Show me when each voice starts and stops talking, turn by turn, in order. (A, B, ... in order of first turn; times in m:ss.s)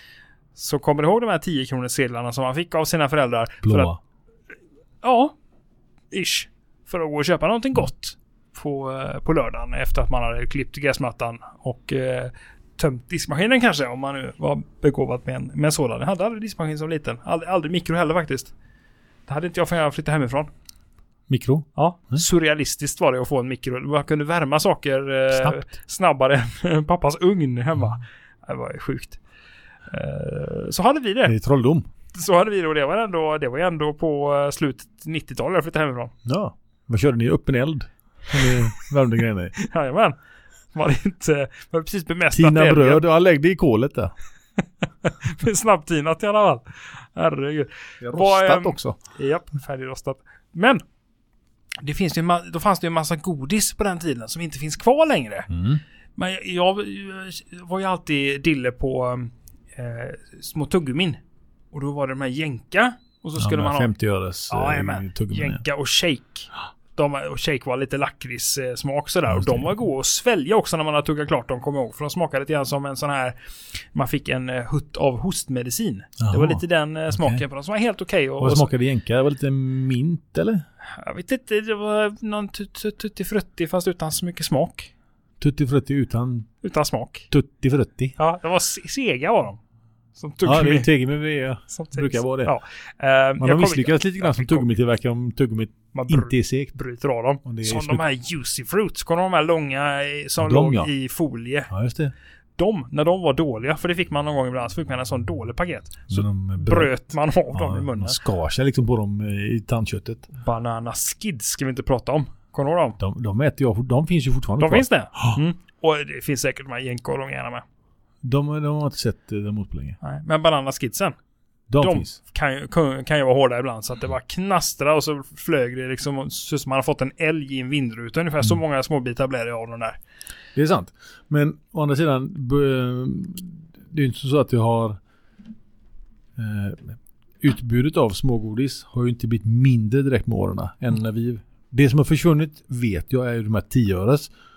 0:00.6-0:03.9 A
0:03.6-0:04.0 B
0:05.0-0:05.3 A
0:06.1-0:18.5 A
0:19.3-0:20.5 A
0:21.3-0:22.2 B
0:21.8-0:29.2 A
0:25.3-0:25.6 B
0:29.9-0:31.3 A
0:31.3-0:31.9 B
0:32.1-0:36.1 A
0:36.2-0:39.6 B
0:39.6-0:40.2 A
0:40.7-0:43.0 A
0:42.3-0:44.1 B
0:45.0-0:50.8 A
0:48.0-0:49.0 B
0:51.8-0:55.5 A
0:55.5-0:55.8 B
0:56.2-1:01.2 A
1:01.7-1:04.0 A
1:03.4-1:05.6 B
1:04.5-1:13.4 A
1:09.3-1:09.7 B
1:13.9-1:18.7 A
1:16.2-1:16.6 B
1:17.1-1:17.4 B
1:18.4-1:20.6 B
1:21.0-1:24.9 A
1:25.4-1:26.5 B
1:26.6-1:27.3 A
1:27.3-1:28.2 B
1:28.2-1:29.6 A
1:30.2-1:30.9 A
1:30.4-1:32.5 B
1:31.7-1:34.7 A
1:33.4-1:36.8 B
1:35.9-1:41.7 A
1:37.4-1:38.0 B
1:40.4-1:40.9 B
1:41.7-1:42.1 B
1:42.6-1:48.2 A
1:46.1-1:47.0 B
1:47.5-1:50.3 B
1:50.4-1:53.0 A
1:53.0-1:55.4 B
1:54.6-1:57.6 A
1:58.2-2:00.0 B
2:00.0-2:01.2 A
2:01.7-2:02.2 B
2:01.8-2:10.0 A
2:10.6-2:15.0 B
2:16.4-2:24.3 B